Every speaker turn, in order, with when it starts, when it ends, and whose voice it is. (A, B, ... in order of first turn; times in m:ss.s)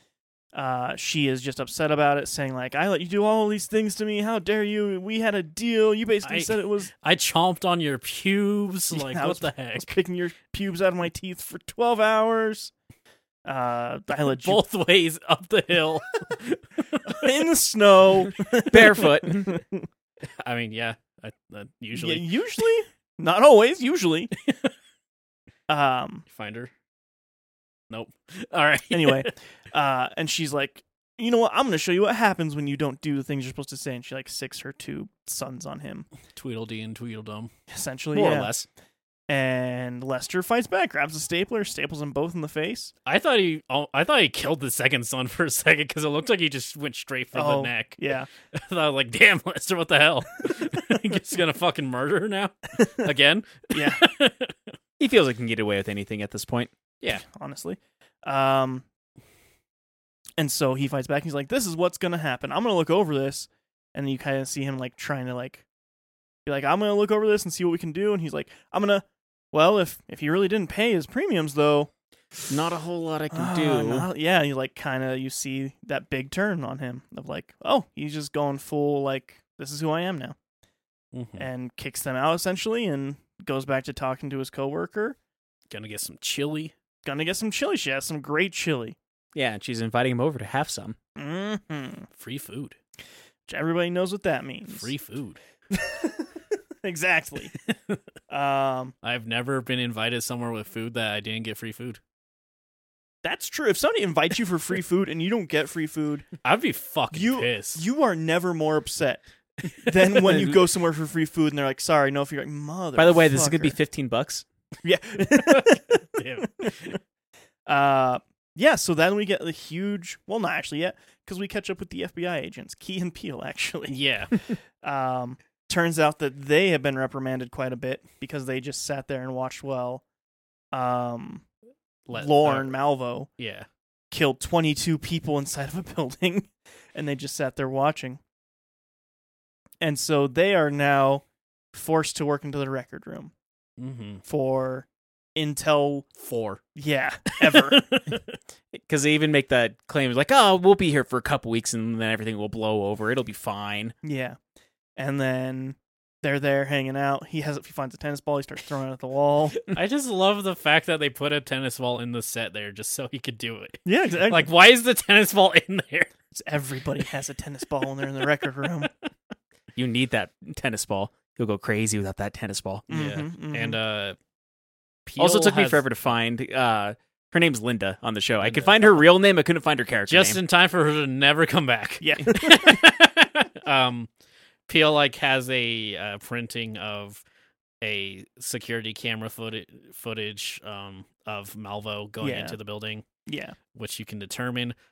0:00.5-0:06.9 A
0:06.2-0:09.9 B
0:08.9-0:12.7 A
0:13.4-0:14.6 A
0:14.3-0:17.3 B
0:17.0-0:19.9 A
0:18.7-0:19.5 C
0:20.4-0:22.6 B
0:21.9-0:24.3 A
0:25.7-0:26.2 A
0:26.3-0:26.7 B
0:27.9-0:29.3 B
0:28.9-0:36.1 A
0:36.3-0:37.5 B
0:37.7-0:38.5 A
0:38.1-0:38.7 B
0:39.3-0:42.9 A
0:43.0-0:54.7 B
0:47.3-0:48.3 A
0:52.8-0:53.1 A
0:53.7-0:54.0 A
0:55.0-0:56.7 C
0:57.1-0:58.8 A
1:00.4-1:05.6 A
1:06.4-1:11.9 A
1:12.5-1:14.1 C
1:13.3-1:20.4 A
1:21.1-1:21.5 B
1:21.4-1:25.2 A
1:25.7-1:26.7 B
1:27.0-1:29.0 A
1:29.3-1:31.0 C
1:31.2-1:32.1 A
1:32.2-1:32.8 B
1:33.5-1:34.9 A
1:34.7-1:35.4 B
1:35.7-1:37.5 A
1:37.7-1:38.0 B
1:38.3-1:38.9 A
1:39.0-1:42.0 B
1:43.2-1:46.3 A
1:46.4-1:47.8 B
1:47.1-1:53.8 A
1:50.2-1:50.6 C
1:53.0-1:54.4 C
1:54.8-1:56.9 A
1:55.5-1:57.0 B
1:57.7-2:10.0 A
2:03.9-2:04.3 B
2:10.7-2:11.5 A
2:12.0-2:12.8 B
2:12.1-2:13.3 A
2:13.4-2:13.7 B
2:14.1-2:18.2 A
2:19.8-2:23.3 A
2:23.8-2:24.2 B
2:24.2-2:26.1 A
2:26.2-2:26.6 B
2:26.7-2:27.9 A
2:27.3-2:28.2 B
2:28.7-2:33.9 C
2:34.0-2:34.4 A
2:35.0-2:39.6 A
2:39.7-2:46.1 B
2:43.8-2:44.5 A
2:46.3-2:48.9 A
2:49.7-2:52.9 C
2:52.9-2:53.8 A
2:52.9-2:54.2 B
2:55.0-2:55.8 B
2:55.2-3:00.4 C
2:58.4-2:58.9 B
3:00.1-3:04.1 B
3:02.0-3:02.8 A
3:04.7-3:07.2 B
3:07.8-3:13.0 B
3:12.2-3:12.6 A
3:13.2-3:13.6 A
3:13.7-3:14.7 B